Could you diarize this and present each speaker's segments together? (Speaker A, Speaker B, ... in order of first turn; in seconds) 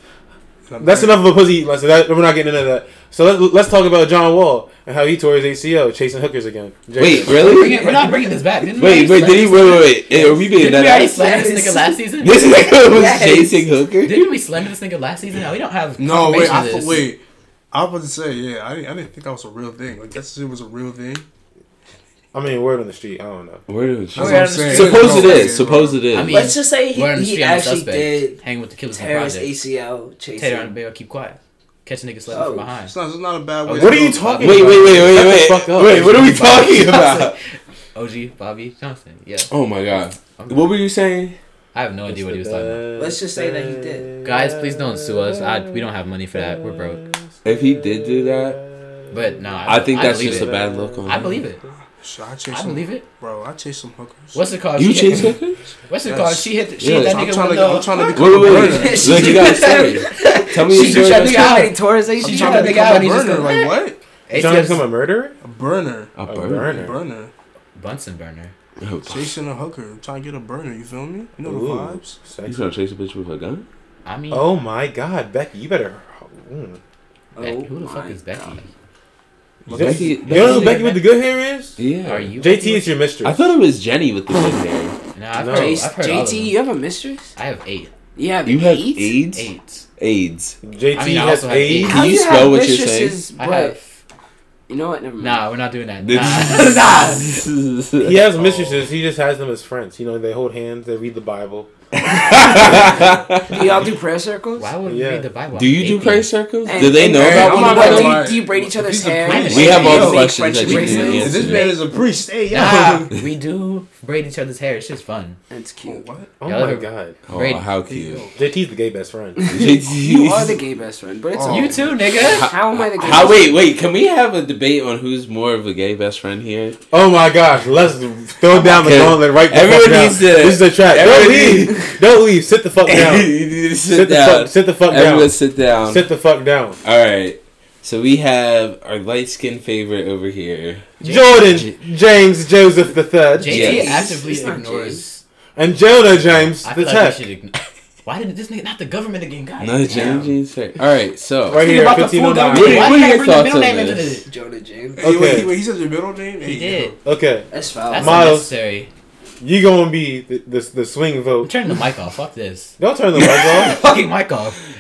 Speaker A: 0.7-1.2, 16.0-17.2, 17.7-21.3, 24.1-26.1, 32.8-34.5, 52.0-54.4, 56.0-59.4, 62.1-64.0, 65.4-67.3, 69.0-72.2, 79.6-80.3, 102.8-103.2, 106.8-113.1, 115.8-116.3, 117.9-118.3, 121.3-122.0, 155.0-157.0
Speaker B: 0.8-7.7, 22.3-23.6, 33.8-36.8, 42.1-45.8, 46.4-48.9, 50.0-51.2, 64.3-65.3, 66.3-67.0, 71.4-72.7, 74.3-76.8, 79.7-81.8, 82.4-83.4, 85.3-85.8, 90.6-92.0, 98.0-101.7, 104.8-105.2, 116.4-117.2, 118.3-119.4, 126.9-133.3, 133.9-136.8, 141.0-143.7, 145.6-147.2, 151.5-153.0, 155.0-155.5, 157.0-158.5, 159.4-161.5, 162.8-163.8
Speaker C: 7.0-8.2, 8.8-11.1, 12.2-14.3, 23.7-26.5, 34.4-37.4, 39.5-41.4, 47.4-48.6, 49.7-51.4, 54.8-55.7, 56.8-57.2, 58.1-61.7, 66.2-66.9, 68.8-69.4, 72.5-73.7, 79.7-81.0, 81.8-82.3, 83.2-85.0, 88.5-90.6, 91.8-93.2, 96.0-98.8, 102.0-103.7, 105.5-108.3, 109.5-111.7, 117.3-118.2, 119.5-120.6, 122.2-126.8, 128.5-132.0, 132.8-136.1, 136.8-141.8, 143.5-144.1, 149.6-151.8, 152.4-154.2, 163.2-163.5
Speaker D: 7.2-12.4, 14.0-17.1, 24.1-25.4, 26.1-29.6, 30.4-33.0, 33.6-35.0, 36.7-39.5, 40.4-40.7, 41.7-42.9, 44.2-47.0, 49.1-51.6, 52.5-53.0, 54.3-55.3, 55.9-63.6, 64.3-64.8, 67.8-68.5, 74.0-74.5, 77.4-78.7, 80.3-81.1, 82.0-82.9, 85.2-86.6, 87.4-87.9, 89.3-89.8, 90.9-92.0, 93.4-94.0, 95.2-97.3, 104.6-106.3, 109.2-111.9, 112.5-115.4, 116.5-117.7, 121.5-122.5, 143.4-145.2, 146.3-150.3, 151.6-154.3, 156.4-156.9, 157.9-158.9, 161.4-162.8, 163.6-164.6
Speaker E: 10.2-12.0, 12.8-13.7, 24.8-25.6, 26.2-28.4, 28.9-30.7, 32.3-32.7, 43.0-44.1, 58.3-63.7, 77.3-78.6, 85.5-87.3, 88.2-89.2, 91.9-93.8, 94.7-95.4, 103.5-104.7, 106.7-111.6, 115.5-116.1, 119.4-123.7, 143.5-145.0, 149.9-150.2, 154.3-155.4, 157.5-158.4